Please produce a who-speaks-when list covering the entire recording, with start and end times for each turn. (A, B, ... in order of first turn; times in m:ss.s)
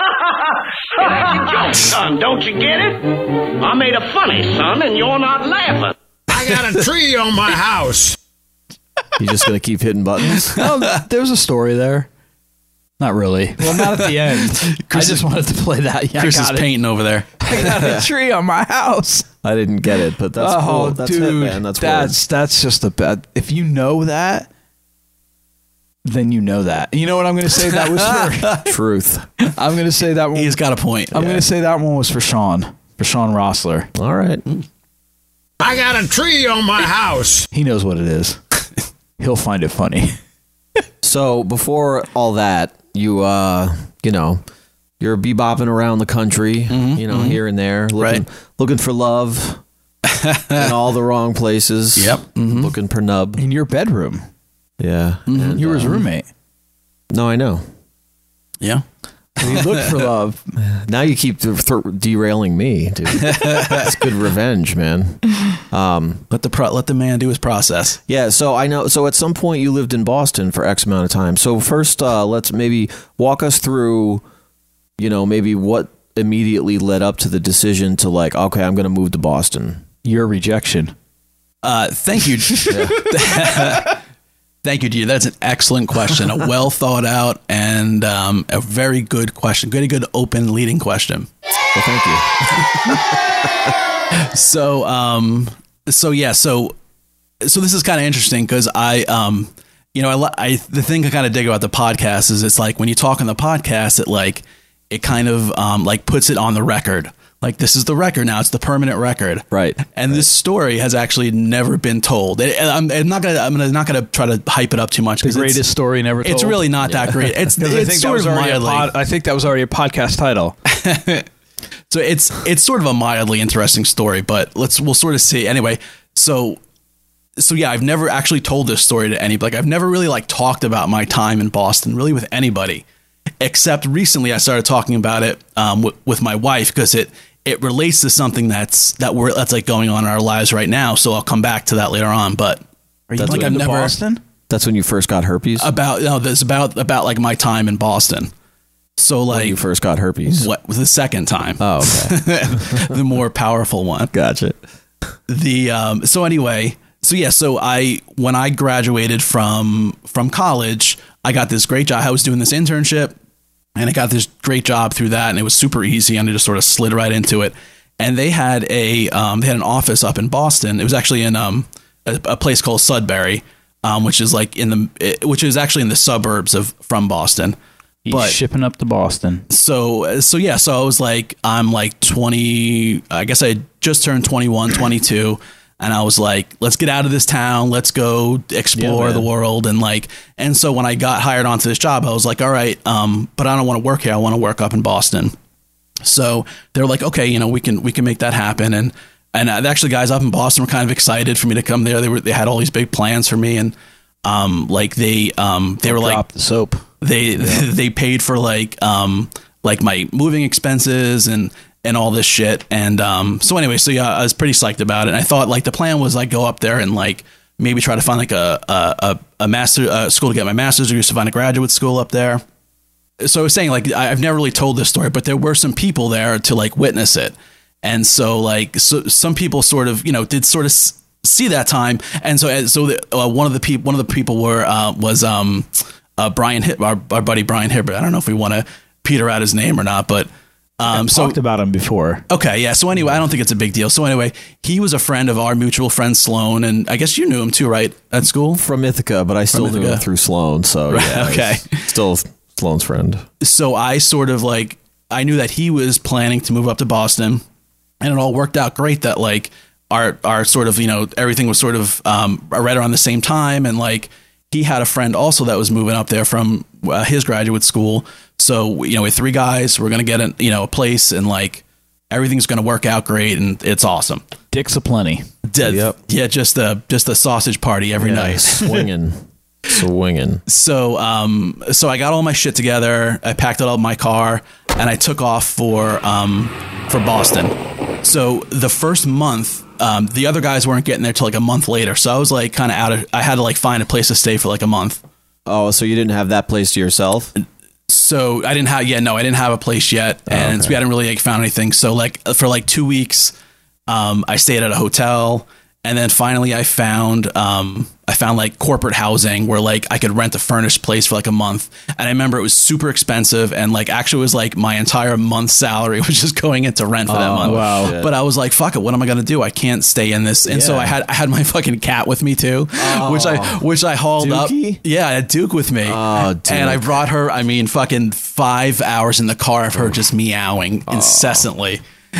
0:01.0-0:06.0 A
0:06.3-0:08.1 B
0:09.2-0:10.6 C
0:10.5-0:12.1 D
0:13.0-0:16.7 D
0:13.7-0:15.3 E
0:16.2-0:17.6 E
0:17.4-0:19.3 D
0:17.6-0:18.1 C
0:19.4-0:22.2 C
0:20.4-0:24.5 D
0:26.0-0:28.7 D
0:27.8-0:28.2 E
0:28.7-0:29.3 C
0:29.4-0:30.6 D
0:30.4-0:31.4 E
0:31.1-0:33.9 D
0:33.9-0:34.4 C
0:35.6-0:37.4 B
0:37.5-0:38.4 D
0:39.2-0:40.2 D
0:41.0-0:44.4 C
0:45.0-0:49.6 C
0:46.7-0:47.4 E
0:48.0-0:48.2 E
0:50.1-0:50.7 E
0:50.6-0:53.4 C
0:52.0-0:52.7 E
0:53.4-0:54.3 D
0:54.8-0:56.0 C
0:55.3-0:56.0 E
0:55.6-0:56.3 D
0:57.1-0:57.6 C
0:59.4-1:00.4 D
0:59.4-0:59.9 E
1:00.6-1:06.2 C
1:03.2-1:04.0 E
1:06.3-1:08.0 E
1:08.1-1:14.2 C
1:15.0-1:19.8 C
1:20.0-1:20.9 D
1:21.6-1:24.0 E
1:22.7-1:23.0 C
1:24.6-1:31.3 E
1:31.8-1:33.5 C
1:34.3-1:36.8 E
1:37.4-1:55.6 E
1:49.5-1:50.3 C
1:55.2-2:00.6 D
1:56.2-1:58.9 E
2:00.8-2:01.3 E
2:01.9-2:06.6 E
2:07.4-2:12.8 E
2:13.4-2:22.6 E
2:23.1-2:24.2 D
2:23.2-2:24.0 E
2:23.2-2:23.6 C
2:24.5-2:25.7 C
2:25.6-2:28.3 E
2:29.0-2:29.6 E
2:29.3-2:30.5 C
2:30.3-2:34.1 E
2:31.6-2:32.9 C
2:34.1-2:34.6 C
2:35.3-2:43.2 E
2:43.8-2:57.6 E
2:58.0-2:59.5 D
2:58.1-2:58.4 E
2:59.5-3:15.3 E
3:08.8-3:09.2 C
3:16.0-3:26.2 E
3:25.8-3:26.8 D
3:27.0-3:42.4 E
3:43.2-4:01.4 E
4:00.9-4:02.2 D
4:02.3-4:08.6 E
4:08.6-4:13.2 C
4:09.5-4:10.0 E
4:10.9-4:11.8 E
4:13.4-4:17.4 E
4:18.0-4:34.2 E
4:34.5-4:35.3 D
4:35.4-4:38.8 E
4:35.6-4:36.0 C
4:38.0-4:40.4 C
4:40.5-4:55.0 E
4:55.5-4:57.3 C
4:57.4-5:03.3 E
5:00.3-5:00.8 C
5:03.9-5:31.8 E
5:17.1-5:18.1 C
5:17.4-5:17.9 D
5:20.5-5:20.9 C
5:22.8-5:23.6 C
5:24.2-5:24.5 C
5:24.3-5:24.8 D
5:25.8-5:27.0 C
5:30.9-5:31.5 C